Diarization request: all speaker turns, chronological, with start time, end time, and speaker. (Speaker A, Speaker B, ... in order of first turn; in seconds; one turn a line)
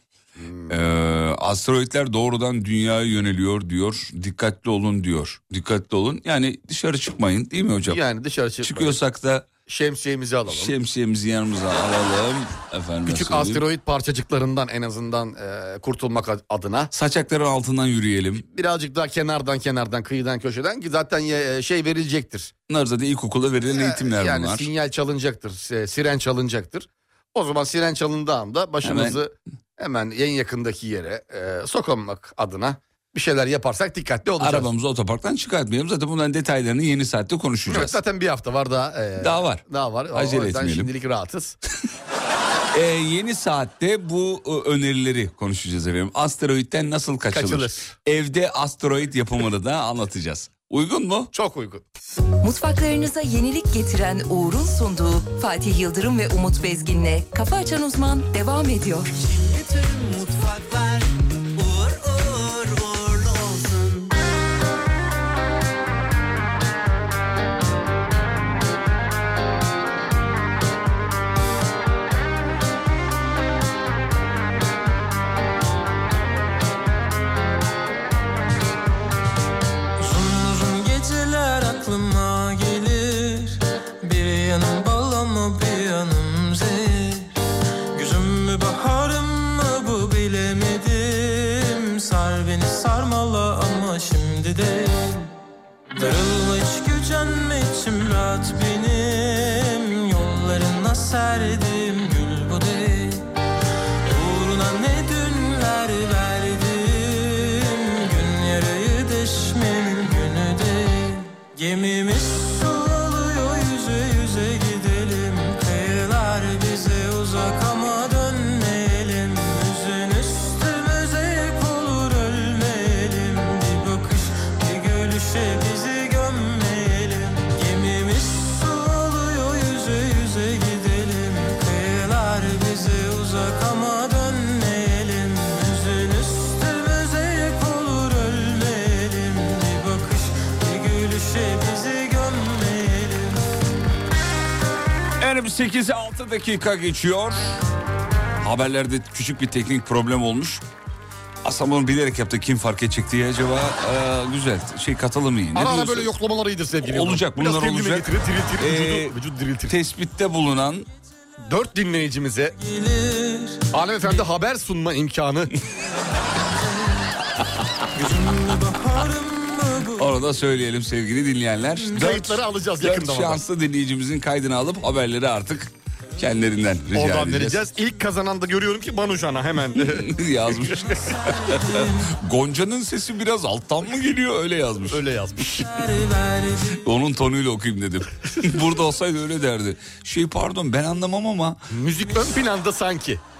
Speaker A: 0.4-0.7
Speaker B: 0.7-8.0
Speaker A: 7.8-9.0
Speaker B: 8.6-9.5
Speaker A: 9.7-10.7
Speaker B: 10.5-13.6
Speaker A: 13.1-16.9
Speaker B: 16.9-18.4
Speaker A: 18.4-22.5
Speaker B: 22.7-24.7
Speaker A: 23.7-34.7
Speaker B: 28.8-29.2
Speaker B: 34.4-38.0
Speaker A: 37.7-41.6
Speaker B: 39.2-40.9
Speaker B: 42.7-51.3
Speaker A: 47.3-47.9
Speaker A: 51.3-51.8
Speaker C: 52.4-59.1
Speaker D: 59.2-64.1
Speaker E: 80.0-87.3
Speaker E: 87.9-95.3
Speaker E: 96.0-103.3
Speaker E: 104.0-143.4
Speaker B: 145.2-147.5
Speaker B: 148.4-150.6
Speaker B: 151.4-156.1
Speaker A: 155.5-159.7
Speaker B: 156.8-159.2
Speaker B: 159.7-160.9
Speaker A: 161.5-162.6
Speaker E: 162.6-163.6
Speaker A: 163.7-165.5
Speaker E: 167.9-170.1
Speaker B: 169.9-177.6
Speaker A: 171.9-173.4
Speaker A: 176.9-180.9
Speaker B: 179.7-185.0
Speaker E: 181.1-182.1
Speaker A: 184.9-185.7
Speaker E: 185.6-186.8
Speaker B: 186.8-191.6
Speaker A: 191.7-193.2